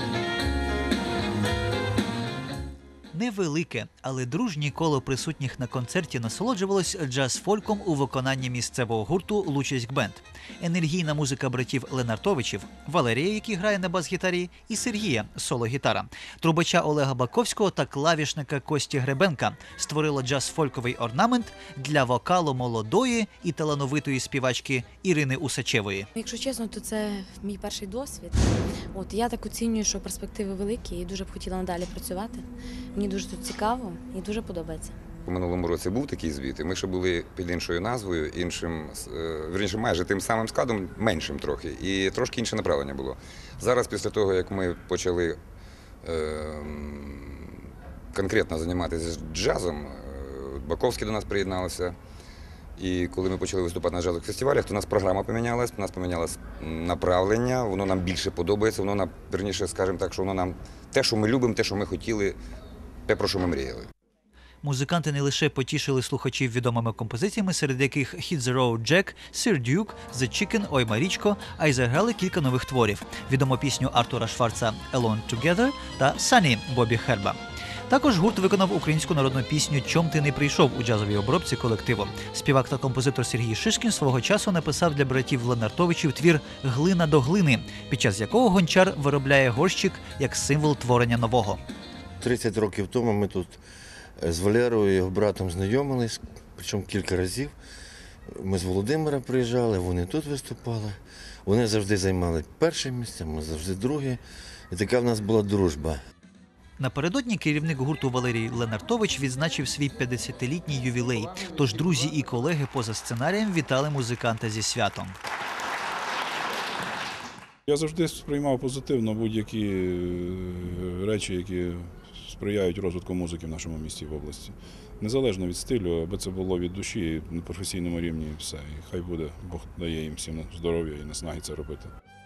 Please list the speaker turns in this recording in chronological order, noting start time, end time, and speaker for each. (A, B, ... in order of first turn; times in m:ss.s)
0:03.1-0:26.1 A
0:26.2-0:35.0 B
0:35.3-0:45.4 C
0:46.0-0:47.6 C
0:48.1-0:52.0 C
0:52.8-1:02.4 C
1:03.1-1:03.9 C
1:04.6-1:17.4 A
1:17.9-1:31.6 A
1:32.2-1:33.6 D
1:34.2-1:37.5 D
1:38.4-1:44.2 D
1:44.7-1:46.0 D
1:46.8-1:55.2 A
1:57.7-2:11.9 E